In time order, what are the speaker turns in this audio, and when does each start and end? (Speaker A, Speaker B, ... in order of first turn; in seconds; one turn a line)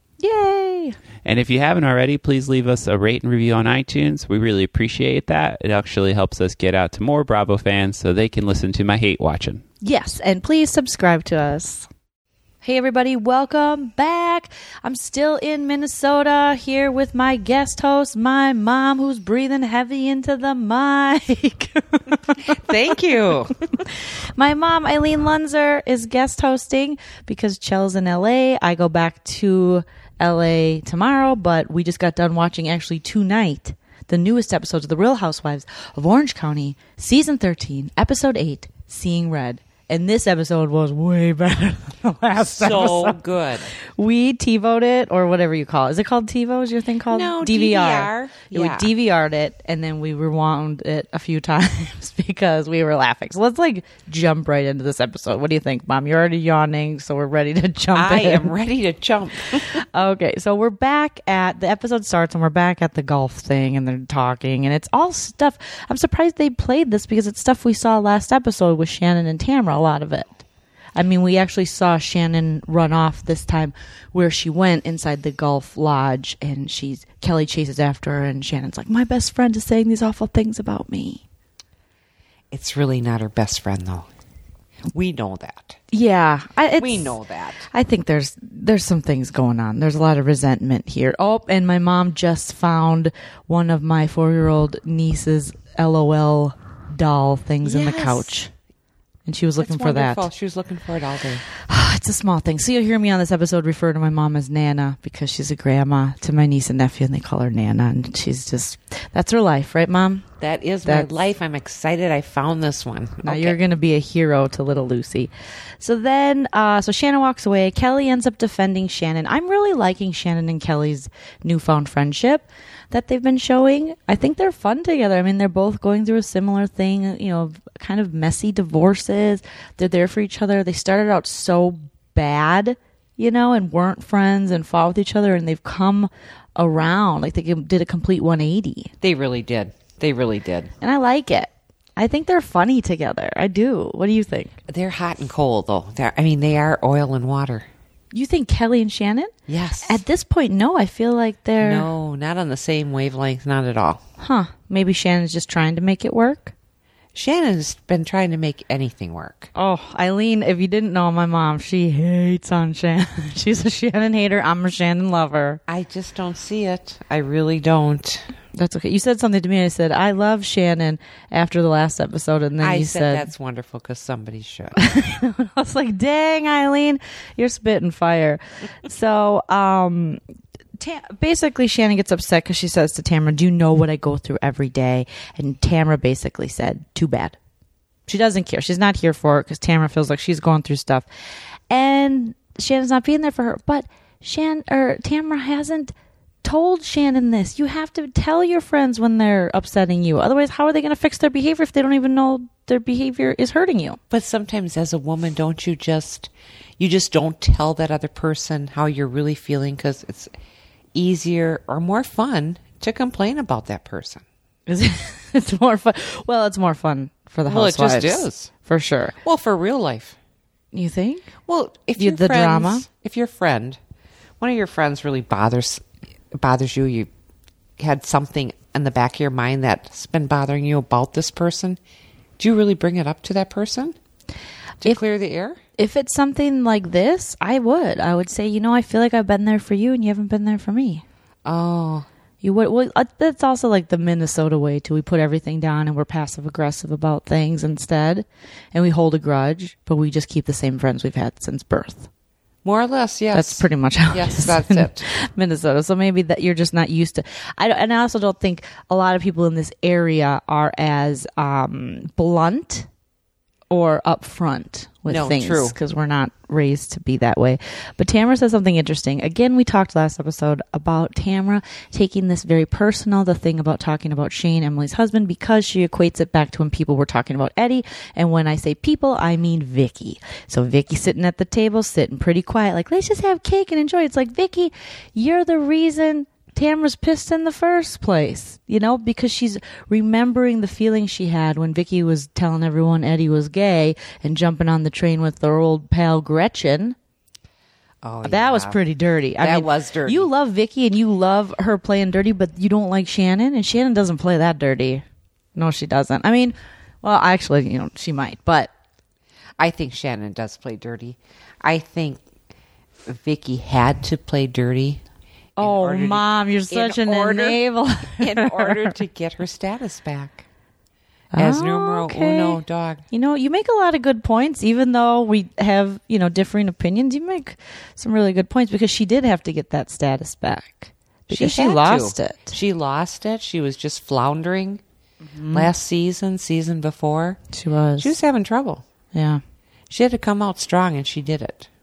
Speaker A: 0.2-0.9
Speaker B: 1.2-9.6
Speaker A: 9.8-11.9
Speaker A: 12.6-22.6
Speaker C: 22.4-23.5
Speaker A: 23.8-43.2
Speaker C: 42.4-43.7
Speaker A: 44.0-58.5
Speaker C: 47.1-48.9
Speaker C: 57.9-59.8
Speaker A: 59.6-70.4
Speaker A: 71.0-81.2
Speaker C: 82.5-84.1
Speaker C: 84.9-85.8
Speaker A: 85.9-87.2
Speaker C: 86.8-87.7
Speaker A: 87.7-98.5
Speaker C: 97.6-98.3
Speaker A: 99.2-100.3
Speaker C: 99.6-101.4
Speaker A: 101.6-110.2
Speaker C: 110.4-113.6
Speaker A: 113.2-138.9
Speaker C: 139.0-140.7
Speaker A: 140.8-144.5
Speaker C: 144.7-147.7
Speaker A: 148.1-149.3
Speaker C: 149.5-150.0
Speaker A: 149.8-151.9
Speaker C: 151.6-154.0
Speaker A: 154.2-156.5
Speaker C: 157.1-159.5
Speaker A: 159.5-165.6
Speaker C: 165.7-168.3
Speaker A: 168.5-173.3
Speaker C: 172.6-174.8
Speaker A: 174.8-180.2
Speaker A: 180.8-187.4
Speaker A: 188.1-191.1
Speaker A: 191.7-195.9
Speaker A: 196.4-204.0
Speaker C: 204.1-210.3
Speaker C: 210.9-214.2
Speaker A: 214.7-219.2
Speaker C: 217.5-218.5
Speaker C: 219.2-220.2
Speaker A: 220.7-221.3
Speaker C: 221.5-223.8
Speaker A: 222.0-222.8
Speaker C: 224.4-227.1
Speaker C: 227.8-231.8
Speaker C: 232.4-233.9
Speaker C: 234.8-235.6
Speaker A: 235.8-241.0
Speaker C: 241.4-242.1
Speaker A: 242.4-252.1
Speaker C: 252.6-255.1
Speaker A: 253.3-262.9
Speaker A: 263.7-296.9
Speaker C: 265.1-265.8
Speaker C: 298.0-298.8
Speaker A: 298.2-305.0
Speaker C: 299.4-300.3
Speaker A: 305.6-308.7
Speaker C: 309.6-312.2
Speaker C: 313.0-315.0
Speaker A: 315.6-319.0
Speaker C: 315.6-317.6
Speaker C: 318.2-320.4
Speaker A: 321.3-332.5
Speaker C: 321.4-323.0
Speaker C: 331.3-334.8
Speaker A: 335.2-335.7
Speaker C: 335.5-337.4
Speaker A: 337.5-338.1
Speaker C: 338.0-338.8
Speaker A: 339.1-339.4
Speaker C: 339.9-341.7